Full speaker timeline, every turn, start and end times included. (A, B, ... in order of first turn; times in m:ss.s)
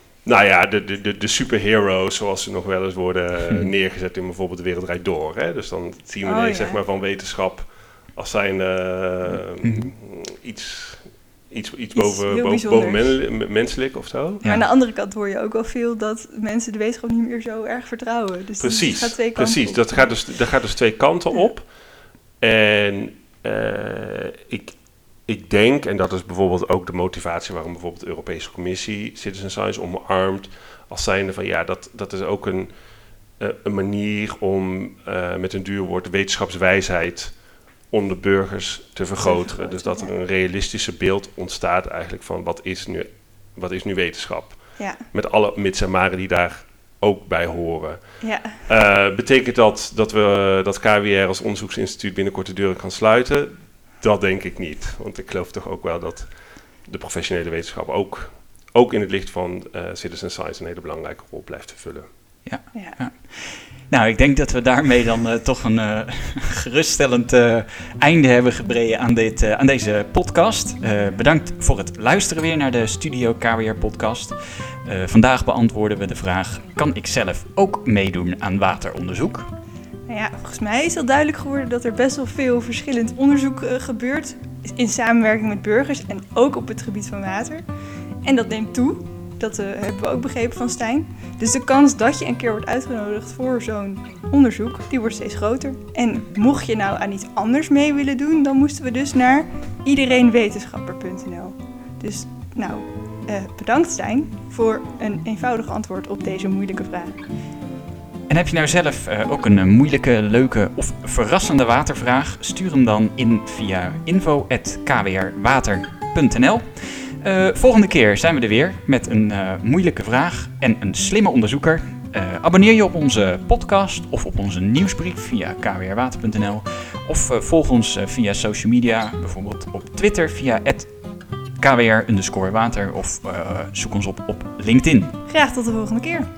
0:00.2-0:14.5 A
0:06.2-0:06.8 B
0:09.4-0:09.9 C
0:11.9-0:13.2 B
0:14.4-0:20.1 B
0:18.6-0:21.8 A
0:22.4-0:32.7 A
0:33.4-0:37.4 A
0:37.9-1:02.0 A
0:39.2-0:40.1 B
0:44.8-0:45.0 B
0:48.2-0:48.6 B
1:02.4-1:19.5 C
1:02.7-1:03.0 B
1:20.1-1:27.6 B
1:28.2-1:47.2 B
1:48.3-2:10.9 C
2:11.6-2:15.1 C
2:15.3-2:16.3 B